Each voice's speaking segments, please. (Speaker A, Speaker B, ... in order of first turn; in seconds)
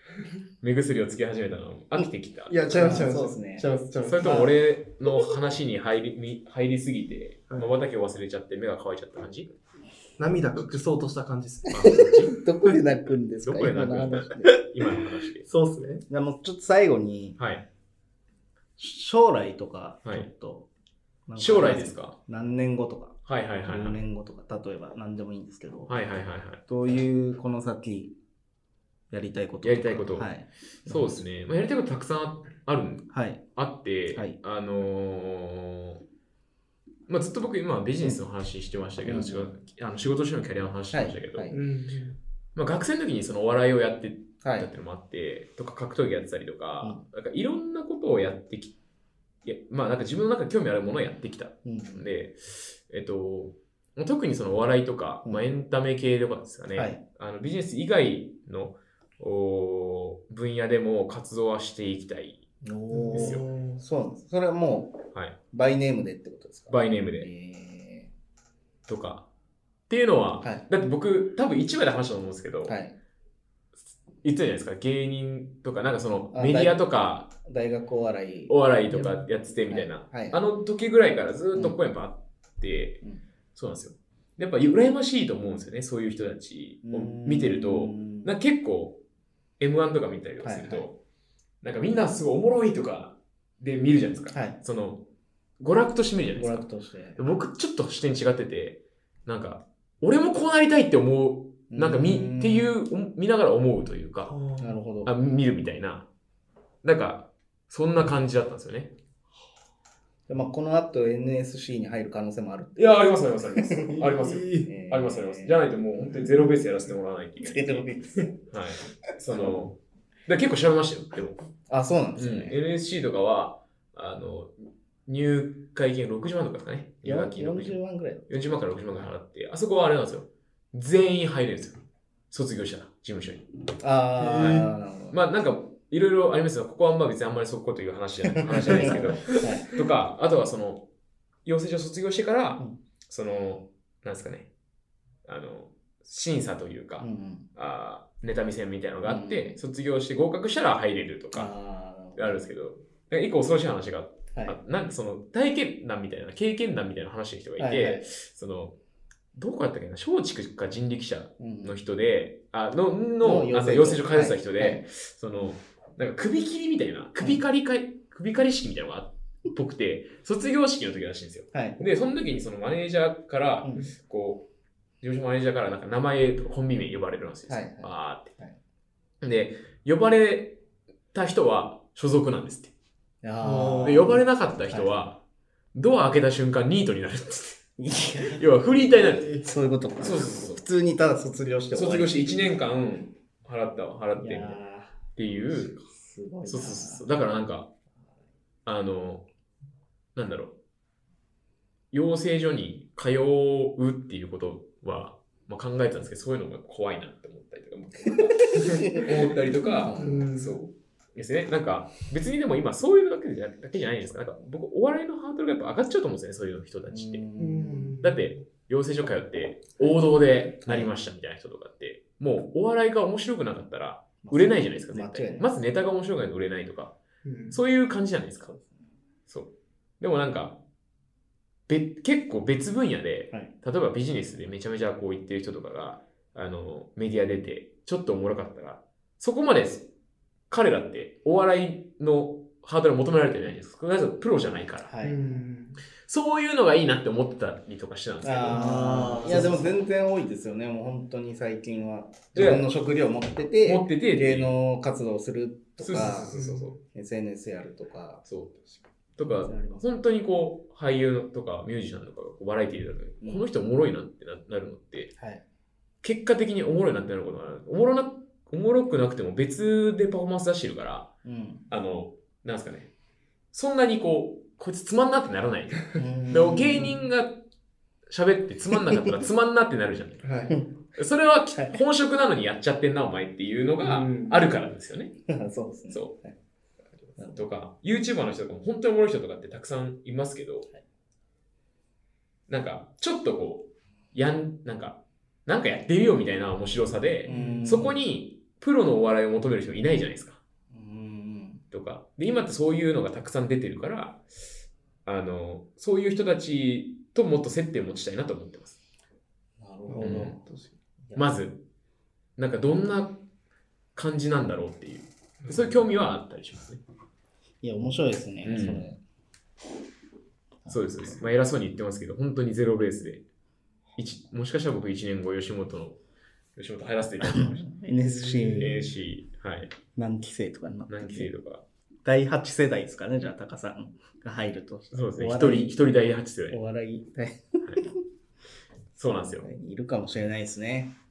Speaker A: 0.6-3.0, 4.0-9.6, 11.7-12.3, 13.4-15.5, 17.4-17.6, 20.0-20.3, 21.4-22.2, 23.2-24.0, 25.9-26.6, 29.6-30.3, 30.9-36.0, 37.1-41.5, 42.5-48.8, 49.4-62.5, 63.1-63.4, 66.7-67.3, 68.9-69.3, 69.9-72.8, 74.2-77.3, 78.5-83.0, 83.5-89.0, 89.6-91.0, 91.6-95.0, 95.6-104.3, 105.0-106.1, 106.8-108.9, 112.8-117.9, 118.5-121.4, 122.2-131.8, 132.3-133.5, 134.3-140.8, 141.4-144.5, 145.2-151.5, 152.2-158.8, 159.3-174.4, 175.0-178.3, 179.2-180.6, 181.1-182.7, 183.8-187.7, 188.2-189.4, 190.0-190.6, 191.7-194.6, 195.1-195.8, 196.4-197.7, 198.7-199.2, 200.1-200.6, 201.9-217.2, 218.0-227.0, 227.5-228.5, 229.3-230.6, 231.7-239.9, 240.5-244.9, 246.0-249.7, 252.3-252.7, 253.6-254.6, 255.8-256.8, 258.2-258.6, 259.1-265.1, 266.0-271.1, 271.7-272.9, 273.5-277.4, 278.1-285.1, 285.9-286.1, 287.2-290.7, 292.5-300.4, 301.7-304.2, 305.0-308.8, 310.0-310.4, 311.1-311.6, 312.4-313.2, 313.9-316.8, 318.4-318.9, 320.7-323.2, 323.9-326.0, 326.6-327.7, 328.5-329.7, 330.9-331.6, 334.9-336.6, 337.6-337.9, 338.9-339.5
Speaker B: 2.5-4.6, 10.2-12.4, 15.4-16.0, 41.5-42.2, 62.9-63.8, 104.2-104.8, 114.0-114.7, 116.0-116.6, 134.2-134.7, 139.3-139.5, 183.4-184.2, 209.8-210.7, 217.4-218.3, 227.2-227.6, 245.0-245.8, 248.5-249.7, 256.3-256.7, 276.5-276.8, 280.2-280.5, 283.8-284.4, 297.2-297.7, 309.9-310.8, 315.4-315.7
Speaker C: 2.7-3.7, 11.8-14.9, 16.1-17.4, 18.8-20.7, 21.2-26.0, 26.6-28.1, 29.1-31.2, 33.1-33.5, 34.1-34.4, 39.0-39.5, 40.9-41.6, 44.4-44.7, 51.6-52.1, 56.7-57.0, 62.6-68.1, 72.7-73.0, 76.3-76.8, 77.3-80.4, 86.8-88.3, 90.4-90.9, 94.3-94.6, 96.3-97.3, 101.7-102.7, 104.6-105.1, 110.3-115.6, 117.4-118.4, 119.3-119.7, 121.7-122.6, 127.0-128.3, 133.8-135.2, 138.3-139.8, 147.0-147.5, 149.0-149.6, 151.3-152.4, 154.3-154.6, 157.6-158.1, 161.4-161.8, 163.2-164.9, 167.2-167.4, 171.5-171.8, 173.6-173.9, 177.5-178.6, 183.2-184.9, 187.8-188.5, 189.2-192.5, 194.2-195.0, 195.7-197.1, 208.5-209.1, 209.7-210.3, 216.9-218.0, 219.8-220.9, 224.2-225.5, 228.5-228.9, 244.8-245.4, 248.2-256.3, 256.9-258.2, 259.2-259.9, 263.2-263.5, 265.2-265.4, 271.2-271.7, 275.9-277.0, 280.5-280.9, 281.5-281.8, 285.3-286.3, 287.2-287.4, 297.2-298.0, 300.7-301.6, 309.6-310.4, 311.1-311.4, 317.6-319.0, 320.6-321.3, 327.2-329.0, 329.9-331.3, 332.0-335.8, 336.5-338.0, 339.4-340.9